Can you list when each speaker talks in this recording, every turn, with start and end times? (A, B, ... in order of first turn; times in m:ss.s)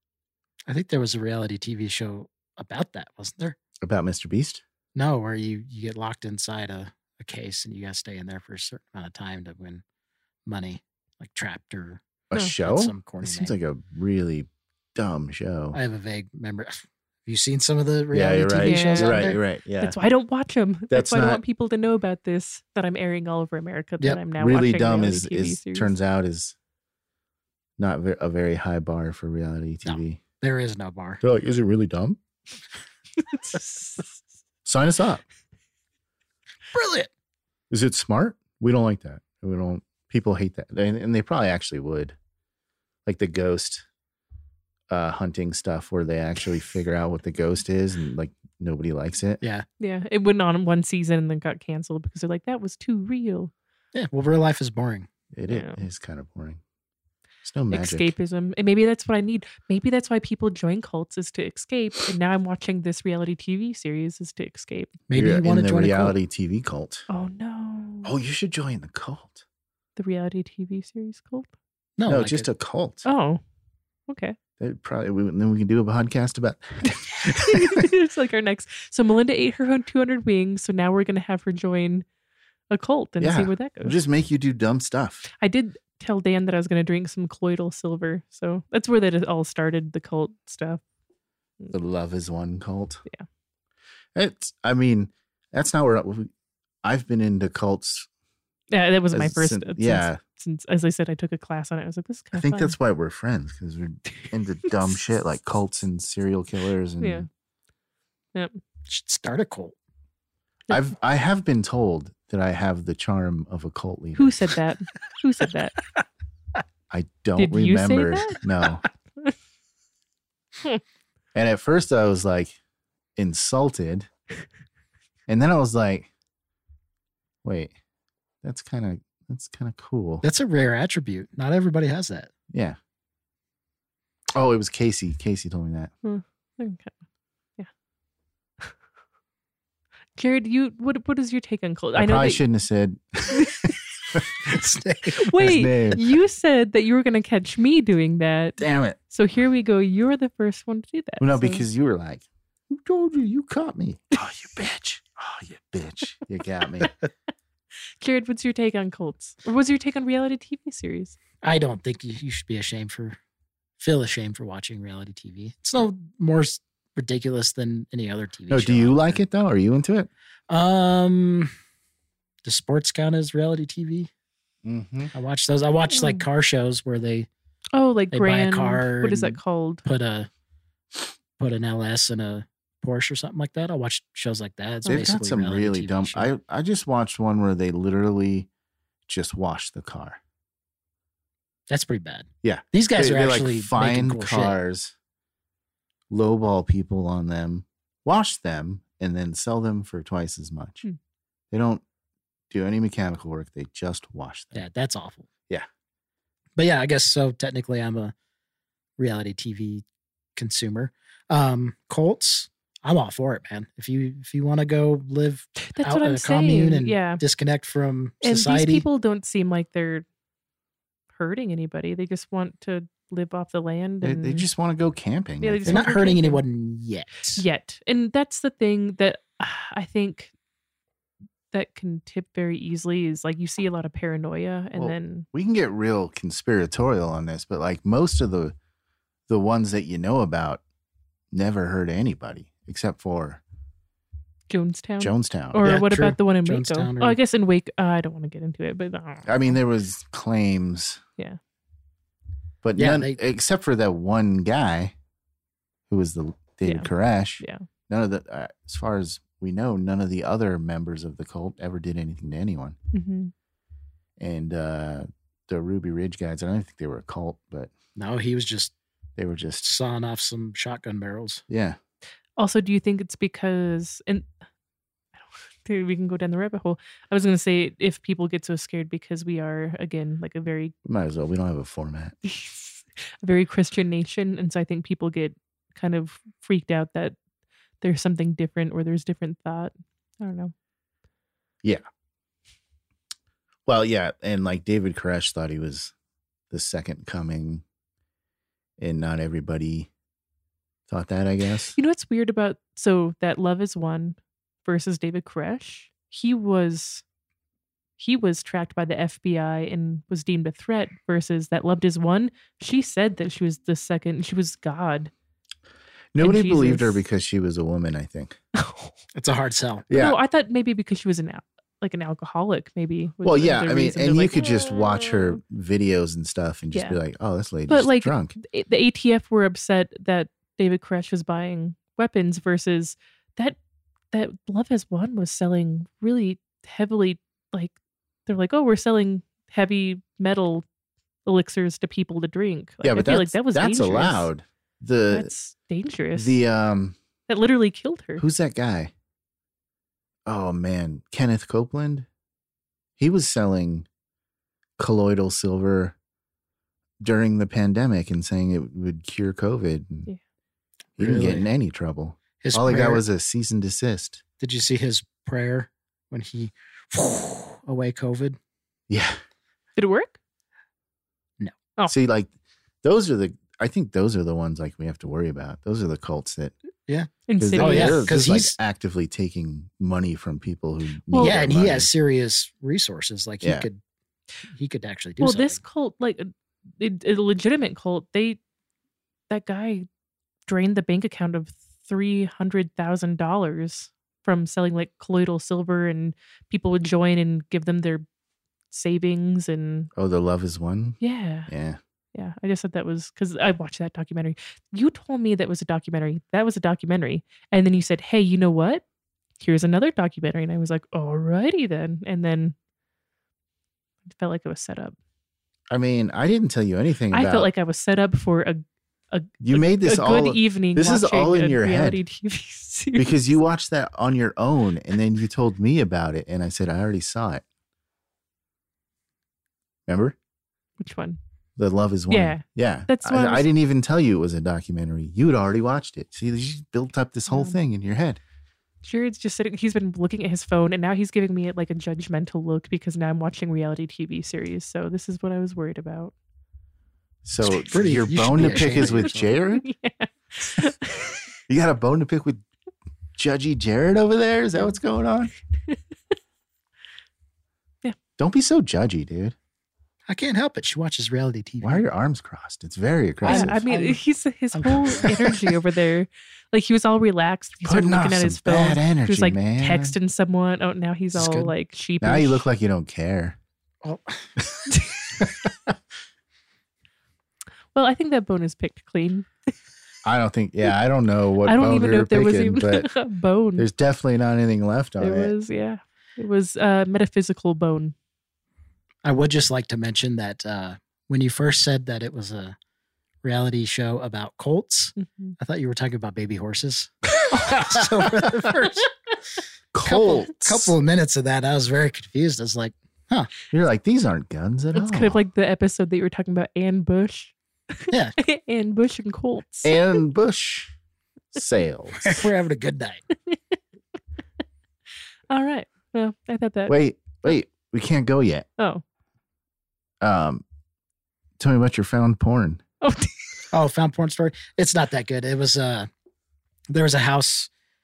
0:00.7-0:03.6 A
0:03.8-0:04.6 B
0:04.9-0:09.8 A
0:10.4-0:13.5 A
0:12.3-0:15.8 B
0:15.7-0:19.4 A
0:18.1-0:20.0 B
0:18.6-0:25.9 C
0:20.9-0:21.4 B
0:24.3-0:26.5 B
0:27.8-0:30.2 B
0:29.8-0:31.2 A
0:31.2-0:32.2 B
0:33.3-0:34.1 C
0:34.6-0:35.2 B
0:36.7-0:37.1 A
0:37.7-0:42.2 B
0:43.0-0:43.8 B
0:44.9-0:49.4 B
0:49.4-0:49.6 A
0:49.8-0:53.5 C
0:53.9-0:55.1 A
0:55.3-0:56.6 B
0:55.5-0:55.8 C
0:57.4-0:58.1 B
0:57.7-1:04.9 C
1:05.1-1:06.2 A
1:05.1-1:07.0 B
1:07.1-1:08.1 C
1:08.0-1:09.4 B
1:10.0-1:11.5 C
1:12.0-1:12.5 A
1:12.1-1:13.0 B
1:13.0-1:13.4 C
1:14.1-1:14.4 C
1:14.6-1:17.9 B
1:17.2-1:22.0 C
1:22.7-1:24.0 C
1:23.2-1:25.3 B
1:25.4-1:30.8 C
1:31.7-1:33.0 B
1:34.1-1:36.3 B
1:36.8-1:38.1 B
1:38.7-1:42.7 C
1:39.1-1:40.2 B
1:42.3-1:47.3 B
1:47.0-1:47.3 C
1:48.9-1:49.7 A
1:50.7-1:54.4 B
1:54.2-1:55.8 C
1:56.9-1:58.8 B
1:57.4-1:58.4 C
2:01.3-2:02.6 B
2:03.2-2:04.1 B
2:05.3-2:06.1 B
2:07.4-2:07.7 B
2:08.4-2:10.2 B
2:10.2-2:12.3 A
2:12.5-2:12.8 B
2:14.3-2:15.9 B
2:16.0-2:16.9 C
2:20.2-2:22.4 C
2:21.9-2:24.6 B
2:23.3-2:23.8 C
2:24.4-2:25.2 A
2:25.1-2:31.6 C
2:25.3-2:26.0 B
2:28.6-2:29.0 B
2:31.2-2:36.9 B
2:38.0-2:41.2 C
2:41.4-2:43.2 A
2:43.8-2:49.2 A
2:48.5-2:50.1 B
2:50.5-2:51.5 A
2:52.4-2:54.1 A
2:54.6-2:55.1 B
2:55.1-2:57.3 A
2:55.9-2:56.2 C
2:57.7-2:59.8 C
2:58.1-3:00.3 A
3:01.4-3:06.3 A
3:04.9-3:08.5 B
3:09.1-3:10.2 B
3:11.7-3:14.6 A
3:12.4-3:14.9 B
3:16.1-3:20.8 B
3:21.5-3:21.8 B
3:22.5-3:24.6 B
3:24.5-3:25.3 A
3:26.6-3:28.1 A
3:29.0-3:29.8 A
3:30.4-3:38.8 A
3:35.6-3:37.2 C
3:38.2-3:40.0 C
3:41.1-3:44.5 C
3:44.0-3:45.9 B
3:45.4-3:46.4 C
3:45.6-3:47.4 A
3:47.4-3:50.3 C
3:51.5-3:55.2 C
3:54.7-3:58.5 B
3:59.3-4:00.6 B
4:01.3-4:03.4 B
4:04.5-4:09.6 C
4:05.0-4:05.6 B
4:05.6-4:07.2 A
4:09.2-4:11.0 B
4:12.6-4:14.9 B
4:12.8-4:13.2 A
4:15.9-4:22.8 B
4:17.4-4:17.6 C
4:22.9-4:23.3 C
4:24.2-4:27.7 B
4:28.0-4:28.7 A
4:29.2-4:29.6 B
4:29.6-4:31.4 A
4:31.5-4:31.8 B
4:32.4-4:34.3 C
4:35.6-4:40.7 C
4:40.8-4:42.1 B
4:42.2-4:47.2 C
4:47.8-4:50.5 C
4:53.6-4:55.9 B
4:56.5-4:57.6 B
4:58.8-4:59.9 B
5:00.9-5:01.8 B
5:01.8-5:07.0 C
5:08.0-5:15.1 C
5:16.1-5:18.4 B
5:16.2-5:17.0 C
5:18.5-5:18.9 C
5:19.1-5:19.8 A
5:19.9-5:20.2 B
5:19.9-5:25.3 C
5:23.2-5:28.3 B
5:26.7-5:27.0 C
5:27.7-5:33.6 C
5:34.1-5:37.7 C
5:38.2-5:40.6 C
5:41.2-5:44.3 C
5:42.8-5:45.3 B
5:45.1-5:46.4 C
5:46.1-5:47.0 B
5:47.3-5:48.2 C
5:48.2-5:48.9 B
5:50.2-5:52.1 B
5:53.0-5:53.8 B
5:54.8-5:55.9 B
5:57.0-6:00.1 B
6:01.0-6:01.4 A
6:01.0-6:04.2 B
6:02.4-6:03.0 A
6:04.4-6:08.4 A
6:08.9-6:09.2 B
6:09.8-6:10.1 C
6:11.9-6:12.3 B
6:12.8-6:16.5 B
6:16.9-6:18.6 A
6:17.3-6:18.2 C
6:17.4-6:21.9 B
6:21.1-6:21.4 C
6:21.2-6:23.8 A
6:23.4-6:23.7 B
6:24.5-6:25.6 A
6:25.2-6:28.4 C
6:29.3-6:29.9 C
6:30.5-6:38.0 C
6:38.7-6:39.9 C
6:39.9-6:41.8 B
6:41.0-6:41.5 C
6:42.1-6:48.8 C
6:49.4-6:52.6 C
6:54.1-6:54.9 C
6:55.7-6:57.5 B
6:57.1-7:03.4 C
6:59.4-7:02.0 B
7:03.0-7:07.4 B
7:09.9-7:10.2 B
7:10.8-7:11.2 C
7:11.6-7:18.2 B
7:12.1-7:13.4 C
7:17.3-7:17.6 C
7:18.8-7:26.1 C
7:27.2-7:29.6 B
7:27.4-7:29.3 A
7:28.4-7:31.3 C
7:31.5-7:32.4 B
7:33.2-7:35.3 B
7:38.2-7:39.4 B
7:40.1-7:41.8 A
7:41.6-7:43.6 B
7:43.2-7:44.0 A
7:43.2-7:52.4 C
7:44.5-7:45.2 A
7:47.6-7:50.0 B
7:51.2-7:51.5 B
7:52.0-7:53.4 B
7:53.8-7:54.3 A
7:54.4-7:55.7 B
7:54.7-7:55.0 C
7:57.7-7:59.3 C
8:00.0-8:02.9 B
8:01.4-8:03.7 C
8:03.6-8:05.3 B
8:05.0-8:07.9 C
8:09.0-8:12.6 A
8:13.2-8:18.9 A
8:15.0-8:15.4 C
8:17.8-8:18.3 B
8:19.7-8:20.7 B
8:19.8-8:23.3 A
8:23.5-8:25.2 B
8:24.7-8:29.8 C
8:27.9-8:28.2 A
8:29.6-8:30.7 B
8:31.3-8:32.2 B
8:32.0-8:33.0 A
8:33.3-8:33.6 C
8:35.3-8:36.8 C
8:36.7-8:38.5 B
8:38.6-8:38.8 C
8:40.0-8:40.4 B
8:41.4-8:42.6 B
8:42.8-8:43.3 C
8:43.5-8:45.9 A
8:46.7-8:47.5 A